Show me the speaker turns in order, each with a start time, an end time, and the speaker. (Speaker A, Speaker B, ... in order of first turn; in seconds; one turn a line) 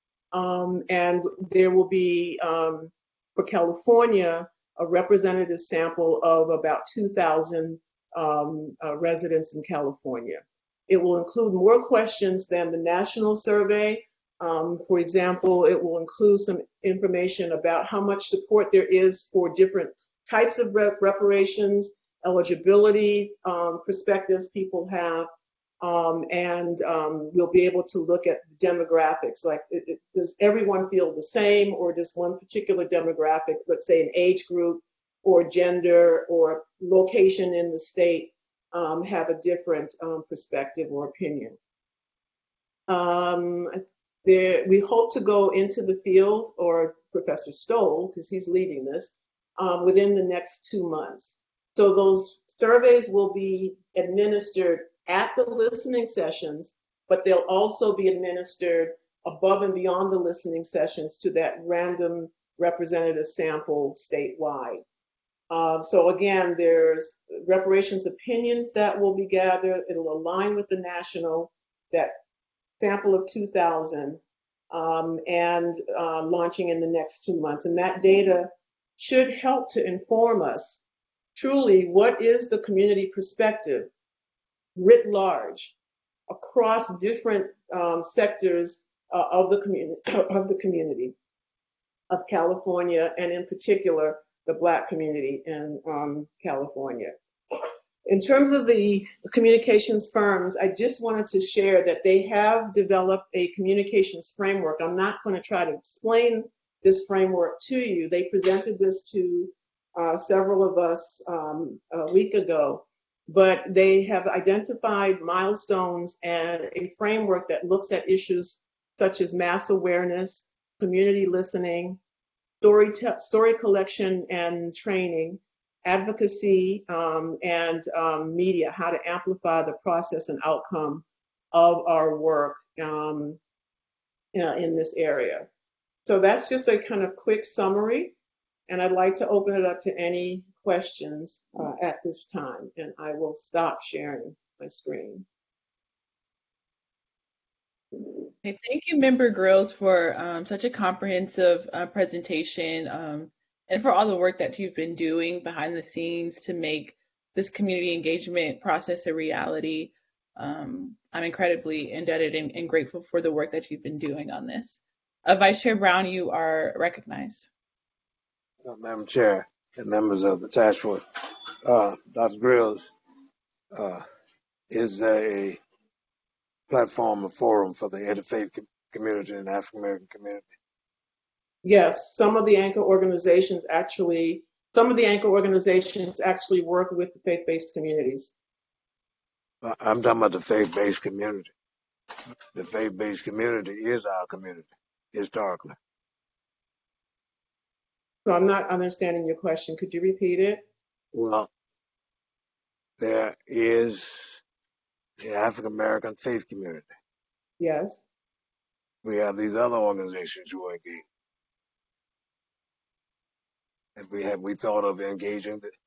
Speaker A: 0.3-25.3
Speaker A: 25.8-41.6
Speaker A: 42.9-64.8
Speaker A: 65.5-72.2
Speaker A: 72.8-74.2
Speaker A: 74.7-80.8
Speaker A: 81.3-83.9
Speaker A: 84.7-85.7
Speaker A: 86.3-91.1
Speaker A: 92.1-122.0
Speaker A: 122.6-133.4
Speaker A: 134.3-135.5
Speaker A: 136.0-138.2
Speaker A: 138.7-145.2
Speaker B: 148.4-167.5
Speaker C: 168.6-171.0
Speaker C: 171.6-172.9
Speaker C: 173.7-174.0
Speaker C: 174.7-175.6
Speaker C: 176.7-180.4
Speaker A: 181.6-188.3
Speaker C: 189.6-191.5
Speaker C: 192.5-195.7
Speaker A: 198.2-200.6
Speaker C: 201.1-201.5
Speaker C: 203.0-204.4
Speaker C: 205.2-206.9
Speaker A: 207.6-208.0
Speaker C: 209.0-211.0
Speaker C: 213.9-215.7